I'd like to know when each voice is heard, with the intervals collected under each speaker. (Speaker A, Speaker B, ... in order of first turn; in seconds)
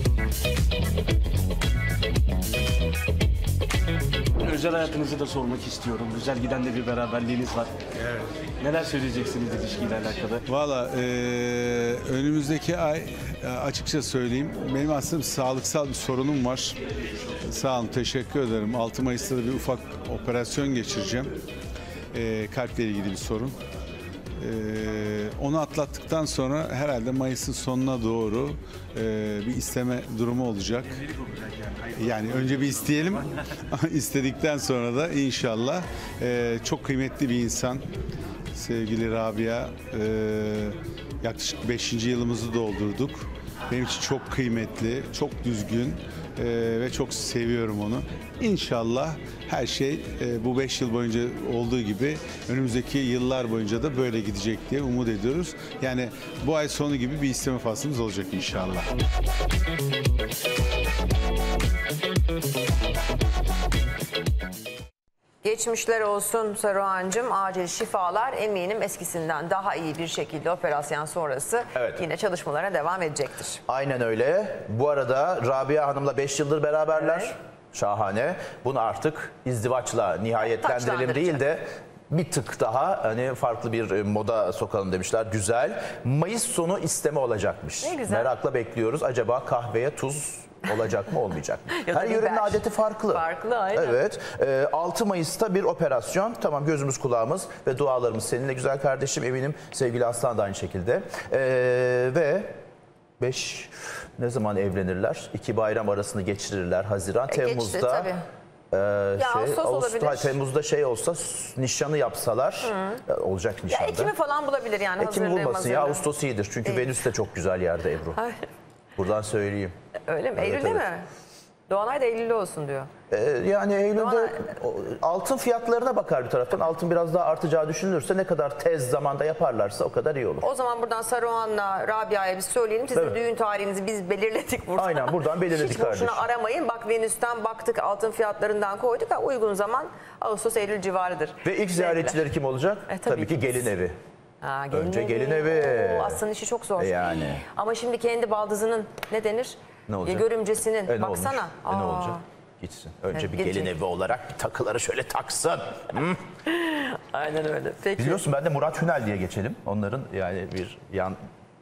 Speaker A: 4.4-7.8, 8.6-10.4
Speaker B: 10.5-16.8, 17.4-21.3, 22.1-23.6, 24.4-31.0, 31.9-37.9, 38.5-58.9
Speaker C: 65.4-73.6, 77.0-77.3, 80.4-81.4, 87.8-88.3, 91.7-94.0, 107.3-108.2, 109.2-110.4, 112.6-113.0, 113.7-116.0, 116.7-116.9, 118.2-118.4, 120.1-121.1, 121.7-122.9, 124.0-124.5, 130.4-142.2, 142.9-143.7, 144.4-152.2, 153.1-153.7, 156.5-158.2
Speaker D: 71.8-72.0, 73.7-102.5, 103.2-108.1, 108.7-114.1, 115.0-118.2, 119.0-119.7, 120.4-120.9, 123.1-130.5, 134.8-136.3, 141.4-143.9, 144.7-146.2, 146.8-147.4, 149.9-150.3, 150.8-156.2, 158.0-161.2